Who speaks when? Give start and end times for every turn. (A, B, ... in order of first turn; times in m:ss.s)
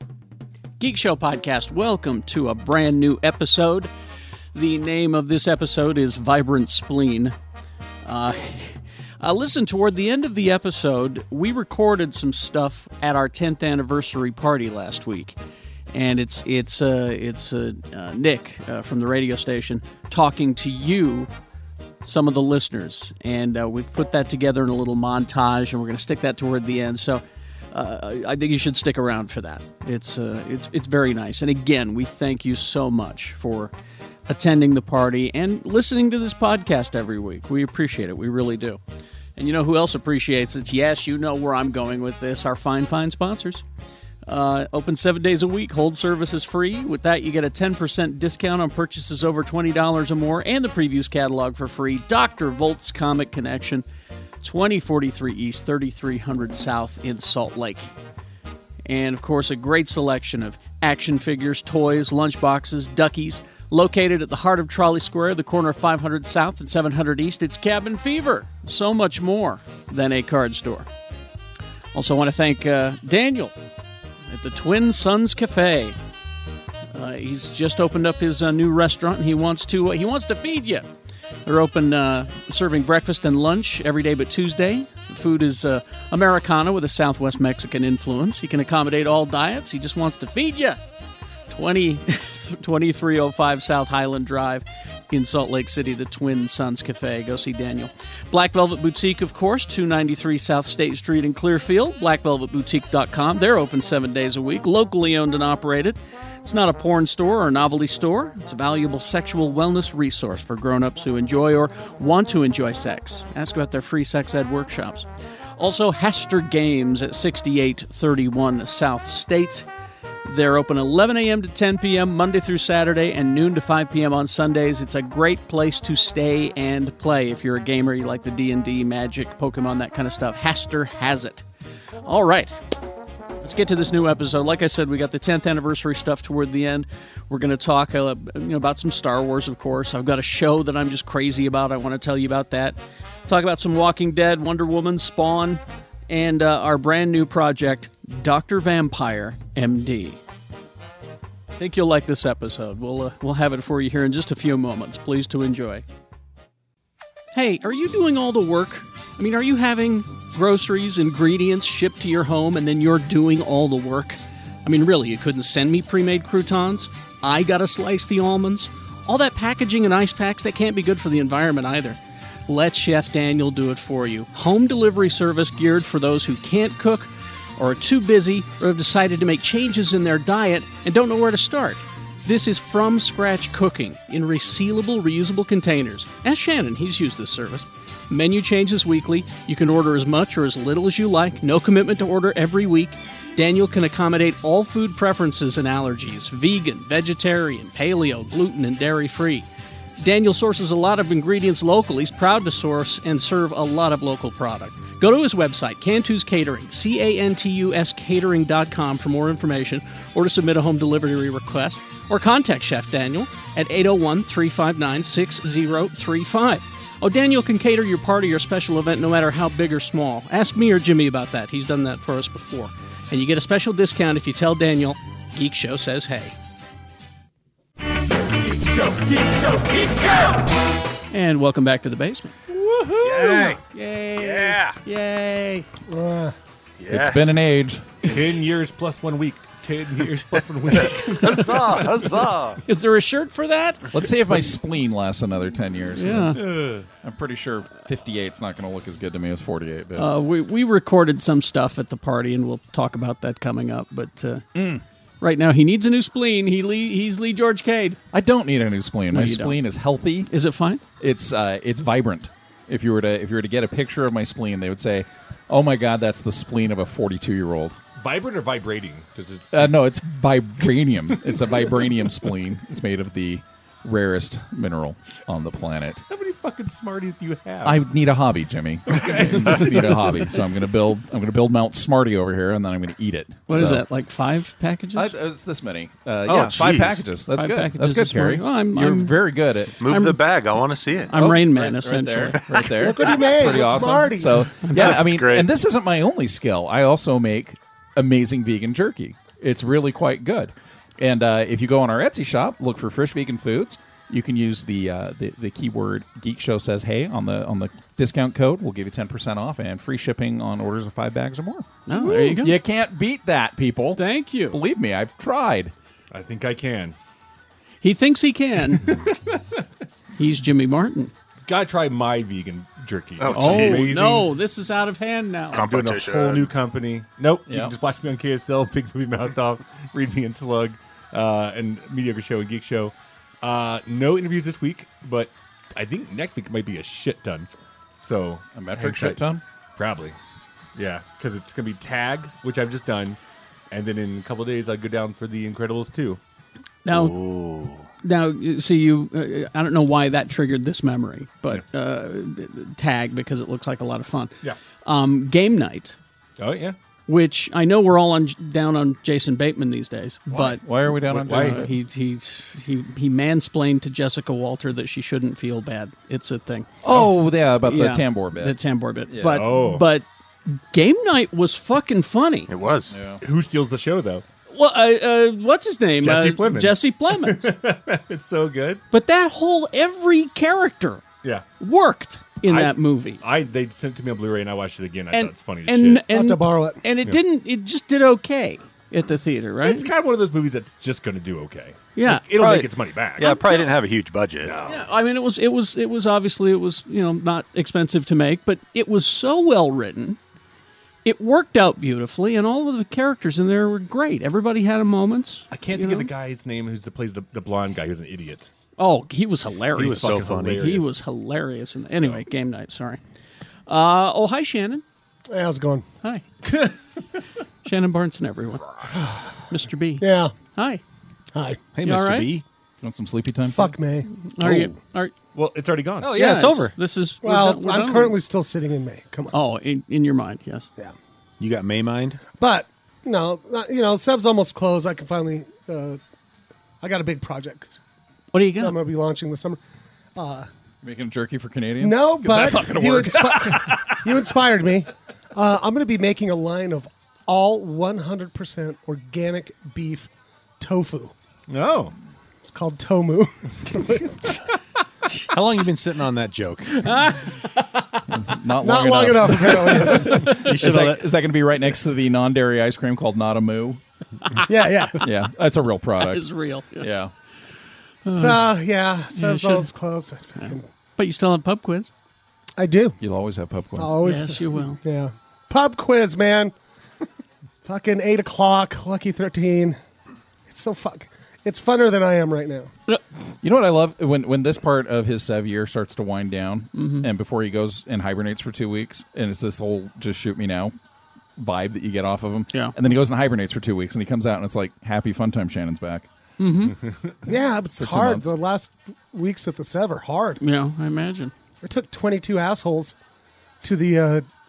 0:00.8-0:03.9 A
0:04.5-0:07.4 A
0:08.0-0:15.4 A
0:15.9-0:21.3 A
0:22.0-0:33.7 A
0:34.3-0:38.8 A
0:39.4-0:43.6 A
0:44.3-0:53.9 A
0:54.4-0:57.9 A
0:58.9-1:10.9 A
1:11.9-1:13.5 A
1:14.3-1:16.0 A
1:16.9-1:20.9 A
1:21.5-1:30.8 A
1:31.5-1:59.7 A
2:00.2-2:11.4 A
2:12.1-2:12.5 A
2:13.4-2:30.2 A
2:31.6-2:35.8 A
2:37.3-3:19.5 A
3:20.0-3:46.4 A
3:51.1-3:55.7 A
3:53.0-3:53.6 B
3:53.2-3:53.5 C
3:54.2-3:54.8 B
3:55.9-3:56.4 C
3:56.8-3:57.4 B
3:56.9-3:58.0 D
3:58.0-4:01.7 E
4:00.8-4:02.6 B
4:02.7-4:03.8 A
4:03.9-4:06.4 D
4:06.0-4:06.4 A
4:06.4-4:06.9 E
4:07.0-4:10.1 D
4:10.0-4:14.5 A
4:14.6-4:14.8 D
4:15.2-4:18.0 A
4:18.1-4:20.3 D
4:19.1-4:19.6 A
4:20.3-4:20.8 A
4:21.0-4:27.8 D
4:28.0-4:29.7 E
4:29.5-4:36.0 D
4:36.1-4:37.8 E
4:37.6-4:43.8 D
4:38.9-4:40.1 E
4:43.5-4:45.1 A
4:45.0-4:49.8 D
4:46.3-4:47.0 B
4:47.3-4:49.3 A
4:49.8-4:51.1 B
4:49.8-4:50.2 A
4:51.1-4:52.4 A
4:51.1-5:15.7 D
4:52.5-4:53.1 B
4:52.8-4:54.5 C
4:54.7-4:55.5 B
5:11.9-5:12.5 A
5:14.0-5:14.6 A
5:16.1-5:17.0 E
5:17.8-5:19.0 A
5:19.1-5:19.6 E
5:20.2-5:21.1 A
5:21.4-5:24.3 E
5:23.2-5:23.9 B
5:23.3-5:25.6 A
5:25.5-5:26.6 B
5:25.6-5:37.5 E
5:27.5-5:27.7 D
5:38.0-5:39.2 E
5:38.6-5:39.4 D
5:39.8-5:40.2 E
5:40.8-5:43.2 E
5:43.7-5:46.2 E
5:46.8-5:47.2 A
5:46.9-5:47.9 B
5:48.0-5:56.0 A
5:56.4-5:56.8 E
5:57.1-6:00.6 A
6:00.3-6:01.7 D
6:01.1-6:01.7 E
6:01.2-6:06.8 A
6:06.8-6:08.6 D
6:07.6-6:12.5 A
6:09.1-6:09.5 D
6:09.3-6:09.9 E
6:12.5-6:13.0 B
6:12.9-6:13.2 D
6:13.2-6:14.2 E
6:14.5-6:17.5 A
6:16.0-6:18.8 E
6:18.9-6:21.0 A
6:21.6-6:23.2 A
6:22.5-6:26.1 E
6:25.1-6:29.9 A
6:26.1-6:26.8 C
6:29.6-6:33.6 E
6:32.0-6:32.2 A
6:32.3-6:34.6 B
6:33.2-6:33.6 A
6:34.4-6:34.8 E
6:34.7-6:40.2 A
6:41.0-6:46.1 A
6:45.5-6:48.5 E
6:48.8-6:53.0 A
6:49.8-6:50.7 B
6:49.8-6:50.9 E
6:53.7-6:54.8 A
6:55.3-6:55.8 C
6:56.4-6:56.8 E
6:57.6-6:58.7 A
6:59.5-7:00.8 A
7:00.0-7:00.3 C
7:01.3-7:01.6 C
7:01.7-7:02.4 B
7:01.8-7:02.4 A
7:02.8-7:03.7 D
7:03.5-7:04.1 C
7:04.3-7:05.2 A
7:05.4-7:06.4 E
7:06.0-7:08.2 A
7:06.0-7:06.8 B
7:07.2-7:09.4 C
7:09.3-7:10.7 A
7:11.4-7:12.2 B
7:12.4-7:16.0 C
7:16.8-7:17.7 C
7:18.3-7:18.8 A
7:18.6-7:19.6 C
7:20.2-7:20.5 C
7:20.8-7:23.6 D
7:21.8-7:31.1 C
7:31.5-7:31.9 E
7:32.4-7:34.2 C
7:35.2-7:36.8 B
7:38.1-7:43.8 D
7:38.6-7:40.4 C
7:40.3-7:41.1 B
7:44.5-7:45.1 C
7:45.0-7:47.1 D
7:46.0-7:46.9 A
7:48.1-7:48.6 A
7:48.2-7:50.7 C
7:49.1-7:49.7 A
7:50.4-7:51.9 A
7:52.6-7:53.0 C
7:53.0-7:54.0 D
7:53.8-7:56.5 C
7:54.0-7:54.8 A
7:57.6-7:59.8 C
8:00.5-8:02.7 C
8:03.4-8:10.7 D
8:06.7-8:07.1 A
8:11.4-8:16.1 D
8:16.4-8:16.8 A
8:16.8-8:17.1 E
8:17.2-8:20.4 C
8:17.8-8:18.3 D
8:20.4-8:21.3 A
8:21.6-8:23.0 C
8:23.6-8:24.2 C